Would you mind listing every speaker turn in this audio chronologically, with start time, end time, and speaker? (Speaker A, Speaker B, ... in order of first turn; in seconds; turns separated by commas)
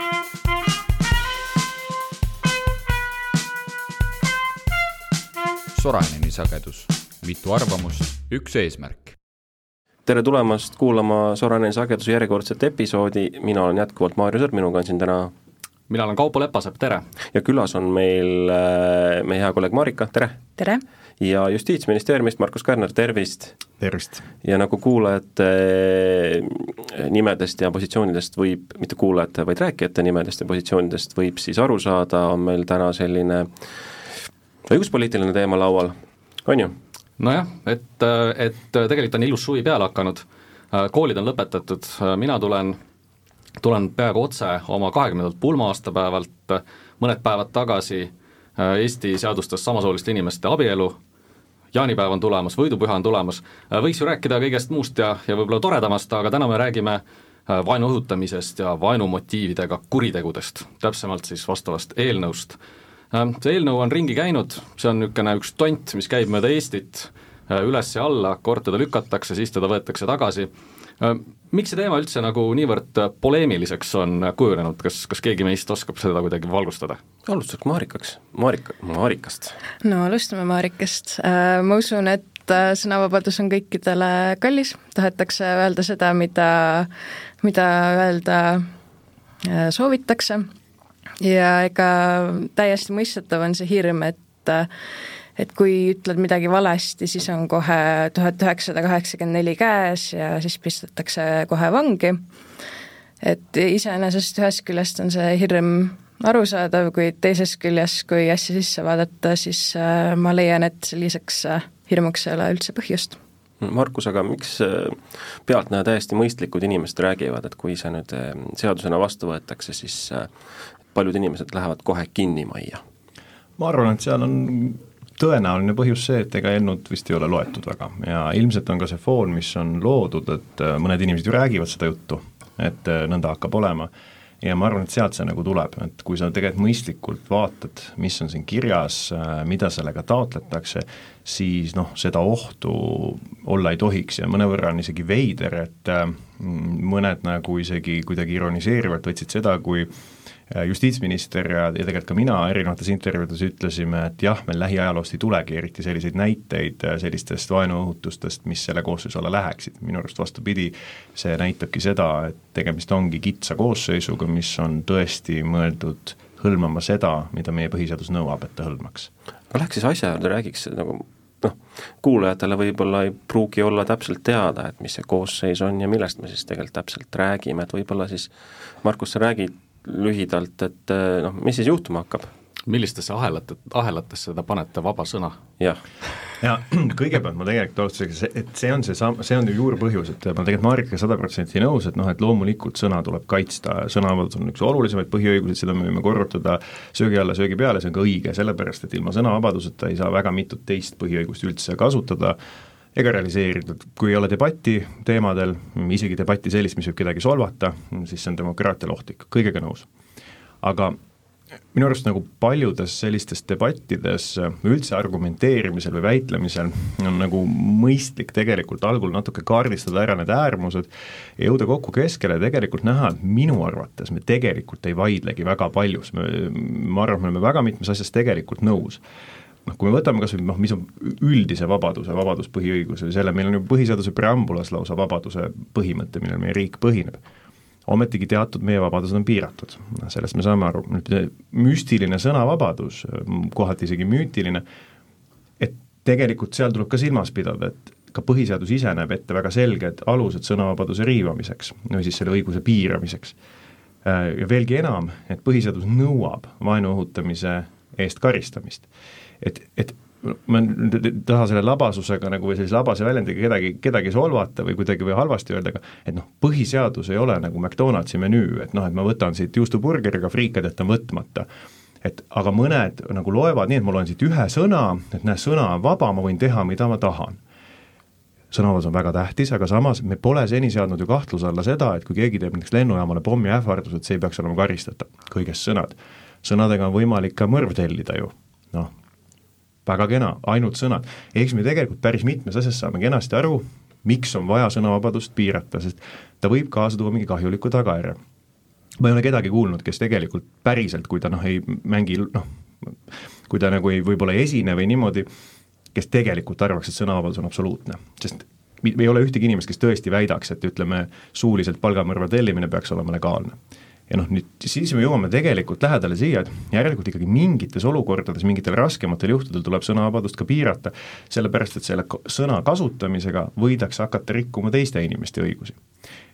Speaker A: 5.7-9.2, Speaker B: 10.1-15.3, Speaker C: 15.9-17.0, Speaker B: 17.3-20.4, Speaker D: 20.6-20.8, Speaker B: 21.2-23.6, Speaker E: 23.8-24.3, Speaker B: 24.4-33.5, Speaker B: 34.7-36.7, Speaker C: 37.2-42.8, Speaker C: 43.6-51.0, Speaker C: 51.7-62.6, Speaker C: 63.1-70.5, Speaker C: 71.0-77.0, Speaker B: 77.3-79.6, Speaker D: 79.8-86.9, Speaker D: 87.4-88.7, Speaker D: 89.4-90.5, Speaker D: 91.2-94.7, Speaker D: 95.4-102.2, Speaker D: 103.2-113.2, Speaker B: 113.6-120.3, Speaker B: 120.9-122.8, Speaker E: 123.6-133.9, Speaker E: 134.4-149.9, Speaker E: 150.5-169.1, Speaker B: 169.5-178.3, Speaker B: 178.8-182.3, Speaker C: 182.7-185.4, Speaker E: 186.4-202.4, Speaker E: 202.9-209.9, Speaker E: 210.6-211.0, Speaker E: 211.7-229.0, Speaker E: 229.7-237.2, Speaker E: 237.9-244.6, Speaker E: 245.6-253.3, Speaker E: 254.0-258.9, Speaker E: 259.4-271.5, Speaker E: 272.0-277.4, Speaker E: 278.5-288.9, Speaker E: 289.9-298.2, Speaker E: 299.0-302.9, Speaker E: 303.5-305.3, Speaker E: 305.9-313.6, Speaker E: 314.1-325.8